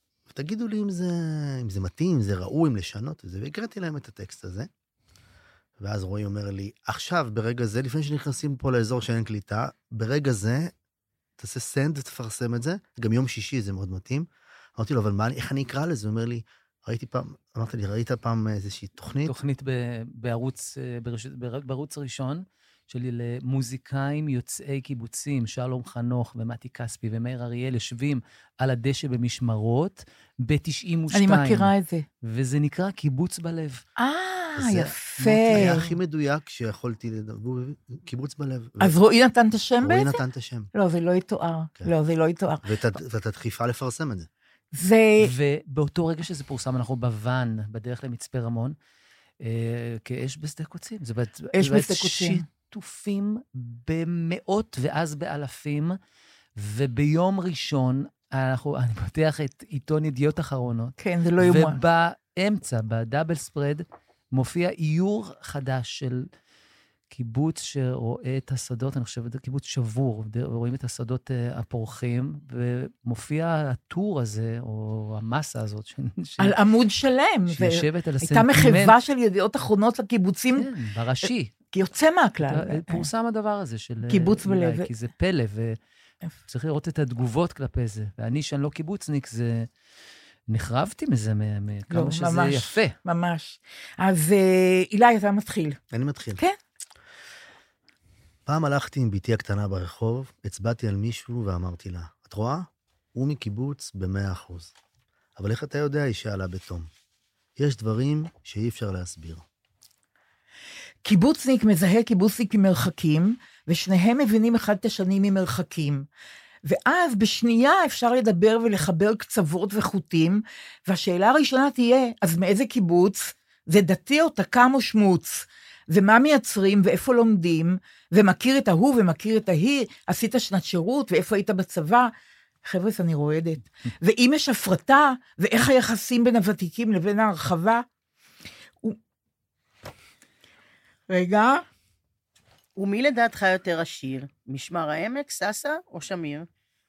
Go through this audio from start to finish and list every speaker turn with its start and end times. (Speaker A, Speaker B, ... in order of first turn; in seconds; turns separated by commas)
Speaker A: 0.3-4.7, Speaker A: 5.8-10.7, Speaker A: 11.4-14.2, Speaker A: 14.8-19.3, Speaker B: 19.2-31.7, Speaker C: 31.1-32.0, Speaker B: 32.2-33.8, Speaker C: 34.0-35.8, Speaker A: 34.5-39.0, Speaker C: 38.8-40.2, Speaker A: 39.8-40.7, Speaker C: 40.7-42.7, Speaker A: 42.6-44.3, Speaker C: 44.7-45.3, Speaker B: 45.2-48.7, Speaker B: 49.4-56.0, Speaker C: 51.5-52.4, Speaker B: 56.6-66.3, Speaker C: 61.0-61.8, Speaker B: 67.1-76.5, Speaker C: 76.4-80.7, Speaker B: 77.5-79.0, Speaker B: 80.6-81.5, Speaker C: 81.2-83.1, Speaker B: 82.4-85.8, Speaker C: 84.1-84.9, Speaker B: 86.5-89.7, Speaker B: 90.5-92.9, Speaker C: 91.9-95.8, Speaker A: 95.9-96.4, Speaker A: 98.5-104.7, Speaker A: 105.4-106.9, Speaker A: 107.6-109.4, Speaker C: 111.0-116.0, Speaker C: 116.6-132.1, Speaker C: 132.6-137.8, Speaker C: 141.1-141.6, Speaker D: 142.8-146.4